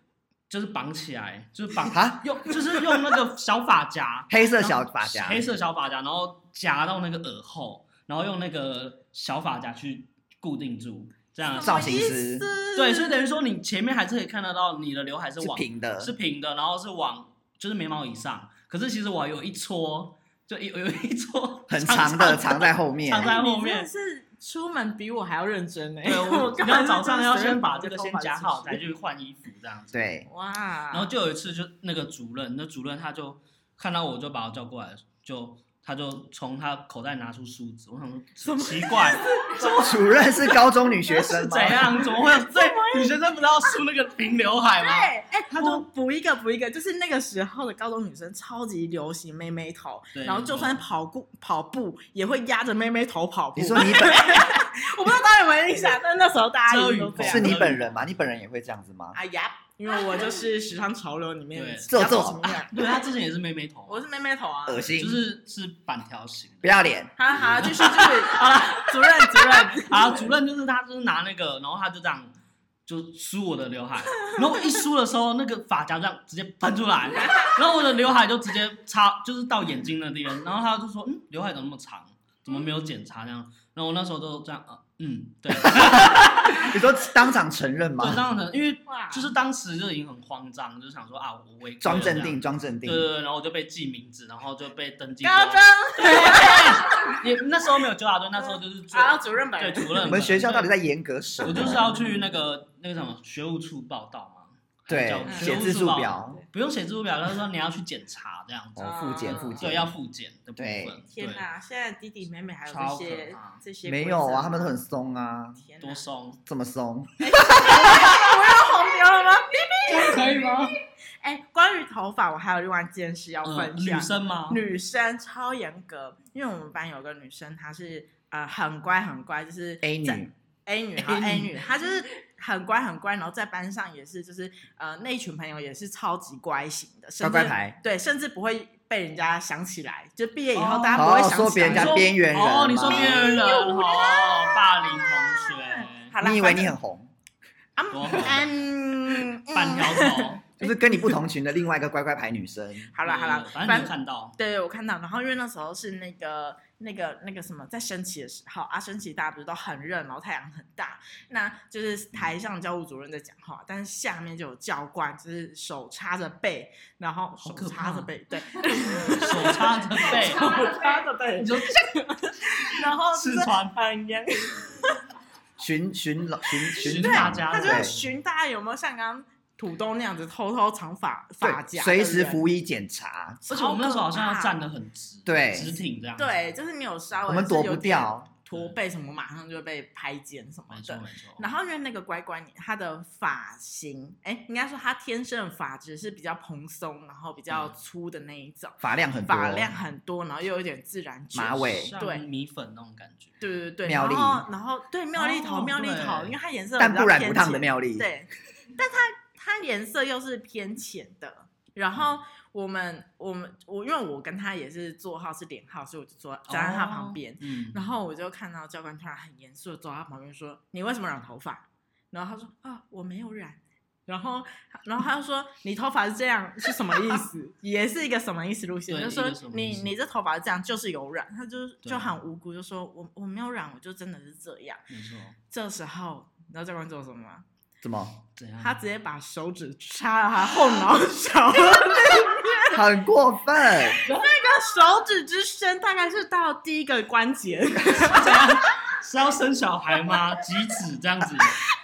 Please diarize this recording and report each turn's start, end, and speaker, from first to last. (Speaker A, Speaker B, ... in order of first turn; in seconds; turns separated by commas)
Speaker A: 0.5-12.1, Speaker B: 1.9-2.2, Speaker B: 4.3-5.4, Speaker C: 11.4-13.2, Speaker B: 11.6-12.5, Speaker A: 12.7-23.9, Speaker B: 15.4-16.1, Speaker B: 21.7-23.3, Speaker C: 23.2-28.8, Speaker A: 26.0-30.0, Speaker B: 29.9-30.3, Speaker C: 30.3-31.1, Speaker A: 30.9-40.0, Speaker C: 38.4-39.8, Speaker B: 39.5-41.9, Speaker C: 41.1-43.1, Speaker A: 41.3-45.8, Speaker C: 44.8-57.5, Speaker A: 50.1-50.8, Speaker B: 53.5-54.3, Speaker A: 56.7-58.1, Speaker B: 57.2-59.2, Speaker C: 59.1-62.9, Speaker A: 61.5-61.9, Speaker B: 61.9-62.4, Speaker A: 62.7-64.0, Speaker C: 63.9-64.9, Speaker B: 64.7-65.2, Speaker A: 64.9-66.7, Speaker B: 66.6-67.2, Speaker C: 67.2-70.1, Speaker A: 67.3-72.3, Speaker A: 72.8-86.7, Speaker B: 85.6-88.2, Speaker A: 88.0-100.7, Speaker C: 88.8-89.3, Speaker B: 91.8-93.1, Speaker C: 95.2-97.2, Speaker C: 98.3-100.2, Speaker B: 100.1-101.9, Speaker A: 101.4-111.4, Speaker B: 104.9-106.4, Speaker C: 105.2-105.5, Speaker B: 108.8-109.9, Speaker C: 108.8-109.7, Speaker B: 110.6-111.0, Speaker C: 111.1-114.8, Speaker A: 112.7-113.6, Speaker B: 113.8-115.6, Speaker C: 115.6-116.0, Speaker A: 115.8-116.4, Speaker B: 116.5-117.1, Speaker C: 117.2-120.6, Speaker A: 119.9-120.7, Speaker C: 121.2-142.1, Speaker A: 123.4-124.6, Speaker B: 129.8-130.3, Speaker A: 131.0-131.6, Speaker B: 137.2-137.8, Speaker A: 140.5-146.1, Speaker B: 140.9-143.2, Speaker C: 142.8-146.7, Speaker B: 146.2-147.1, Speaker C: 147.8-150.8, Speaker A: 147.9-148.5, Speaker A: 149.5-150.4, Speaker B: 150.6-152.9, Speaker C: 152.9-174.9, Speaker A: 153.0-154.4, Speaker A: 167.4-168.1, Speaker A: 169.0-170.4, Speaker A: 171.4-172.0, Speaker A: 172.8-173.8, Speaker B: 175.6-177.9, Speaker A: 176.8-178.0, Speaker C: 177.0-182.4, Speaker B: 181.4-183.4, Speaker C: 183.4-184.6, Speaker A: 183.5-186.3, Speaker B: 185.2-185.8, Speaker C: 186.2-202.2, Speaker B: 187.2-188.3, Speaker A: 190.7-191.5, Speaker A: 197.5-197.8, Speaker B: 198.8-199.8, Speaker B: 201.3-201.9, Speaker A: 201.8-203.3, Speaker C: 203.4-234.8, Speaker B: 203.8-204.4, Speaker A: 205.1-206.3, Speaker B: 206.8-208.1, Speaker A: 216.5-217.8, Speaker A: 228.9-229.9, Speaker A: 231.8-232.2, Speaker A: 234.9-235.4, Speaker C: 235.5-237.4, Speaker B: 237.8-238.2, Speaker A: 238.4-238.8, Speaker C: 238.6-242.8, Speaker B: 242.7-244.0, Speaker C: 243.9-248.4, Speaker A: 247.9-251.6